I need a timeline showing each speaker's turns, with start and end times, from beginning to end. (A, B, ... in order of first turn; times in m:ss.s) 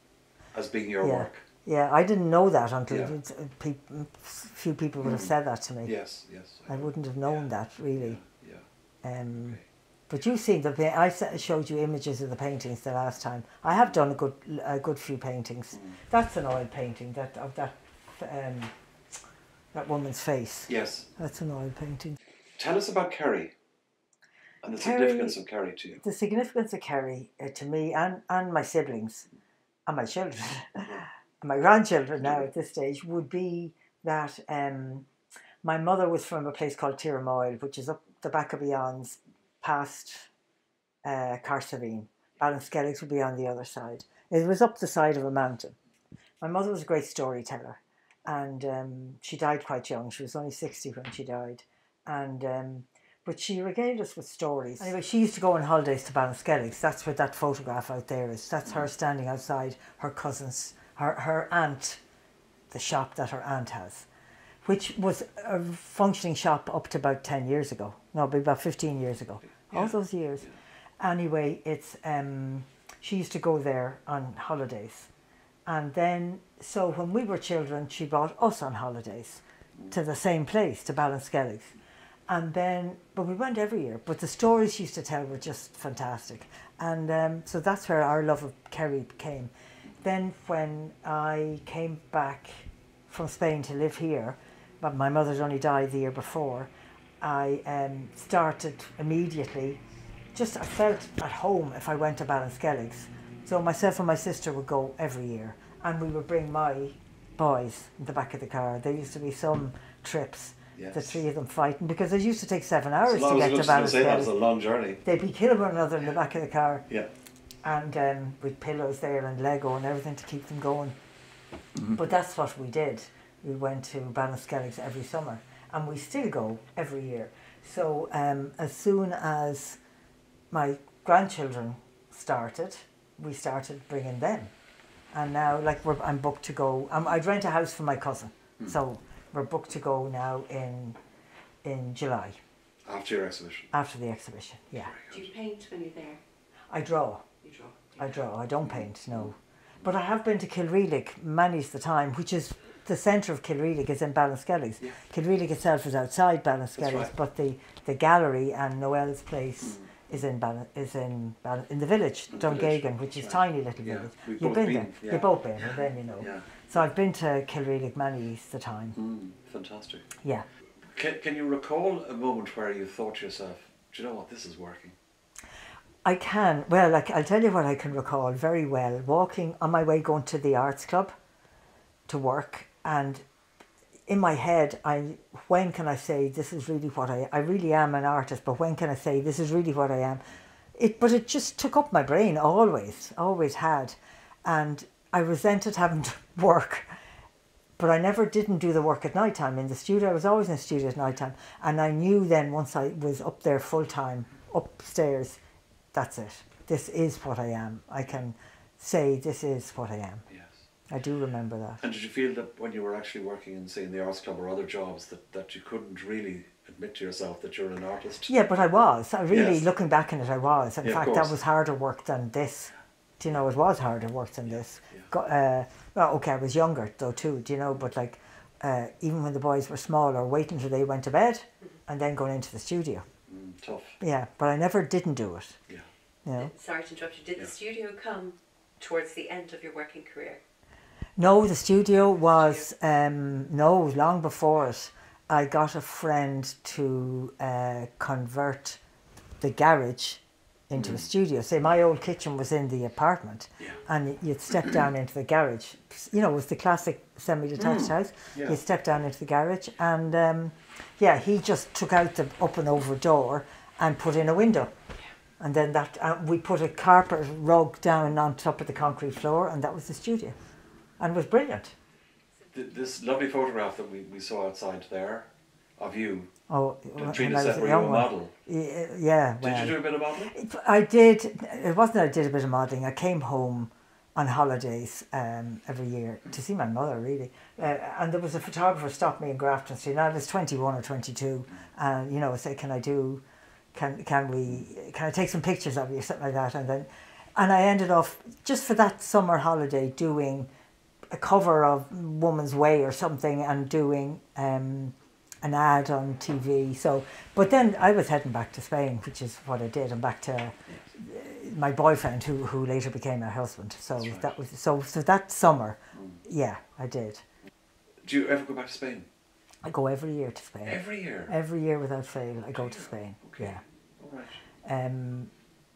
0:00.5-0:01.4 A
0:01.0-0:05.9 B
0:02.9-0:03.1 A
0:05.0-0:08.6 A
0:06.7-0:08.2 B
0:09.0-0:18.7 B
0:09.3-0:09.6 A
0:15.7-0:16.0 A
0:19.7-0:22.2 B
0:20.7-0:21.1 A
0:22.6-0:23.5 A
0:24.6-0:26.0 A
0:24.7-0:25.4 B
0:26.0-0:29.3 B
0:29.9-0:35.1 B
0:35.6-0:40.3 B
0:41.0-0:45.8 B
0:46.4-1:02.0 B
1:02.7-1:04.1 B
1:04.6-1:10.5 B
1:09.5-1:10.5 A
1:11.0-1:15.1 B
1:15.6-1:21.8 B
1:22.3-1:39.8 B
1:40.3-1:54.3 B
1:50.8-1:51.2 A
1:53.0-1:55.0 A
1:55.0-1:56.9 B
1:57.6-2:01.0 B
2:02.0-2:09.8 B
2:10.5-2:14.5 B
2:15.1-2:21.0 B
2:21.6-2:22.4 B
2:22.8-2:23.7 A
2:23.7-2:24.9 B
2:24.8-2:25.3 A
2:25.1-2:26.2 C
2:26.7-2:27.2 B
2:27.4-2:28.2 C
2:28.0-2:49.0 B
2:28.6-2:29.9 A
2:36.8-2:37.1 A
2:39.6-2:39.9 A
2:42.3-2:46.5 A
2:49.0-2:50.1 A
2:50.8-2:55.0 A
2:56.0-3:01.1 B
3:02.1-3:03.2 B
3:04.1-3:10.2 B
3:10.8-3:16.9 B
3:17.8-3:25.4 B
3:25.9-3:30.2 B
3:30.3-3:30.6 A
3:30.9-3:31.8 B
3:31.8-3:38.3 A
3:38.3-3:53.0 B
3:39.3-3:39.7 A
3:40.8-3:41.4 A
3:44.5-3:45.1 A
3:53.3-3:54.0 A
3:54.0-3:55.6 B
3:56.2-3:56.5 B
3:56.4-4:00.4 C
4:01.2-4:08.8 B
4:09.4-4:24.7 B
4:10.8-4:11.1 A
4:17.6-4:18.6 A
4:25.4-4:30.4 B
4:31.0-4:31.7 B
4:32.5-4:36.3 A
4:36.5-4:53.2 B
4:37.0-4:38.3 A
4:39.4-4:40.3 A
4:53.7-5:00.5 B
5:01.1-5:17.2 B
5:14.0-5:14.3 A
5:15.9-5:16.2 A
5:18.0-5:19.1 A
5:19.6-5:23.6 B
5:20.6-5:21.3 A
5:22.5-5:24.4 A
5:24.6-5:25.3 B